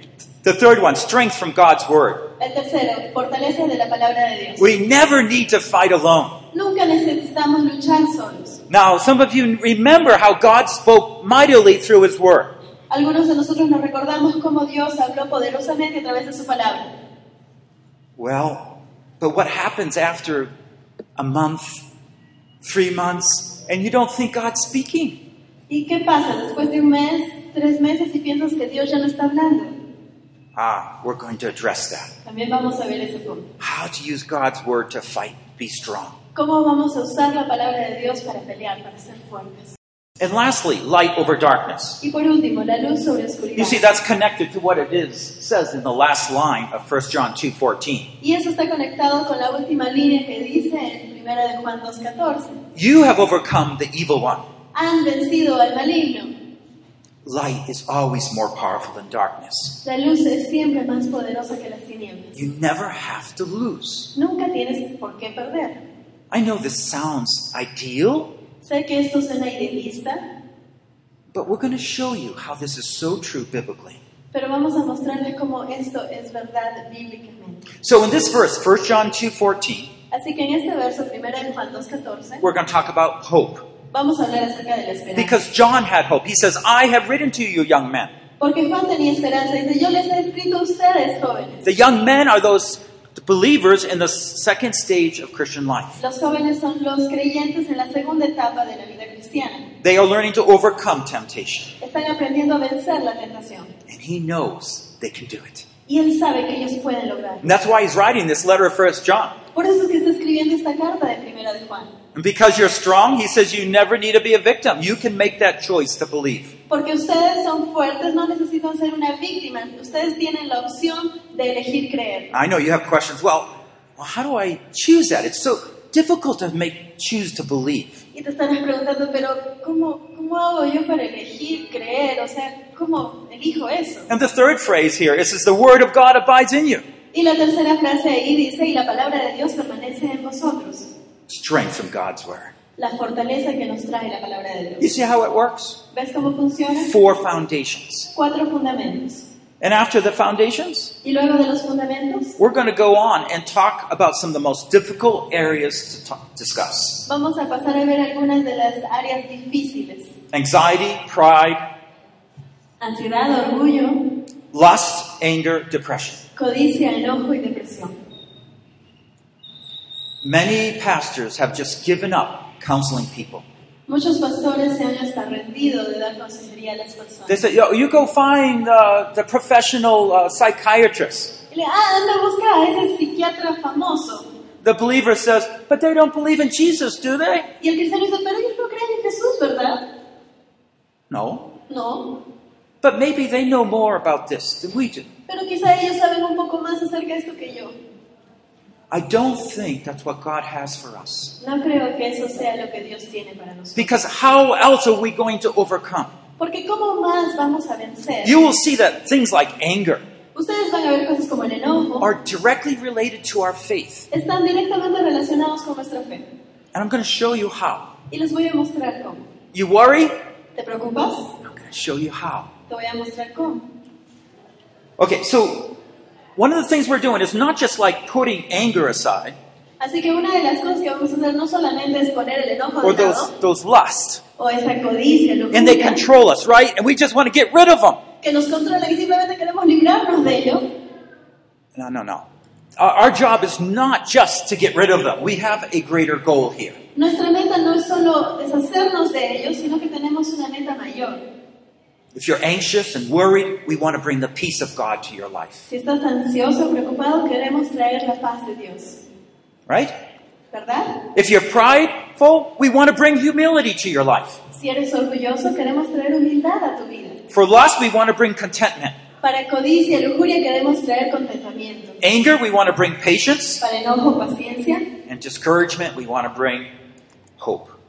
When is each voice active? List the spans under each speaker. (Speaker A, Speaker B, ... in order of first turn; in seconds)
Speaker A: 0.4-2.3, 4.6-6.4, 8.7-12.6, 18.2-20.5, 21.2-21.9, 22.6-25.2, 30.6-32.1, 33.6-36.2, 40.2-42.0, 43.6-48.1, 52.8-54.5, 57.2-59.8, 62.3-64.1, 66.3-68.4, 71.3-74.0, 77.8-79.9, 82.4-83.7, 85.2-88.1, 91.6-96.0, 99.8-101.8, 103.9-105.7, 107.4-109.4, 112.2-116.5, 122.3-128.0, 134.1-136.8, 141.3-142.5, 144.8-145.8, 146.7-148.1, 149.6-150.9, 152.4-157.1, 160.3-161.7, 164.5-166.2, 170.2-173.4, 177.3-181.3, 184.6-187.5, 191.1-191.5, 192.8-195.1, 198.9-201.4, 203.8-206.1, 208.2-210.1, 212.0-214.1, 216.7-217.9, 219.5-220.2, 221.4-222.5, 225.0-225.8, 226.4-229.4, 232.8-234.2, 235.5-238.0, 241.8-246.8, 252.1-255.7, 259.7-259.9, 261.1-264.4, 267.3-269.0, 272.0-273.6, 275.1-276.7, 277.4-277.7
Speaker B: 2.4-4.7, 6.5-8.6, 12.9-17.0, 25.7-29.7, 32.2-33.5, 36.4-39.7, 42.0-43.9, 48.2-52.6, 54.7-56.3, 59.8-62.3, 64.2-65.8, 68.6-70.2, 74.3-77.7, 80.1-82.5, 83.9-85.4, 88.4-91.7, 96.0-99.7, 101.8-103.7, 105.9-107.6, 109.5-111.9, 116.7-122.3, 128.1-134.1, 137.1-140.9, 142.8-144.9, 145.9-146.9, 148.1-149.3, 151.0-152.4, 157.1-160.1, 162.8-164.2, 166.3-167.9, 173.9-177.4, 181.5-184.3, 187.6-189.9, 191.7-192.2, 195.3-197.8, 201.4-204.1, 206.4-208.4, 210.3-212.1, 214.1-216.3, 218.1-219.2, 220.6-221.4, 222.7-223.7, 229.8-233.3, 234.4-236.0, 238.2-240.7, 246.9-251.2, 255.7-259.0, 260.5-261.1, 264.5-267.2, 269.2-272.0, 273.6-274.9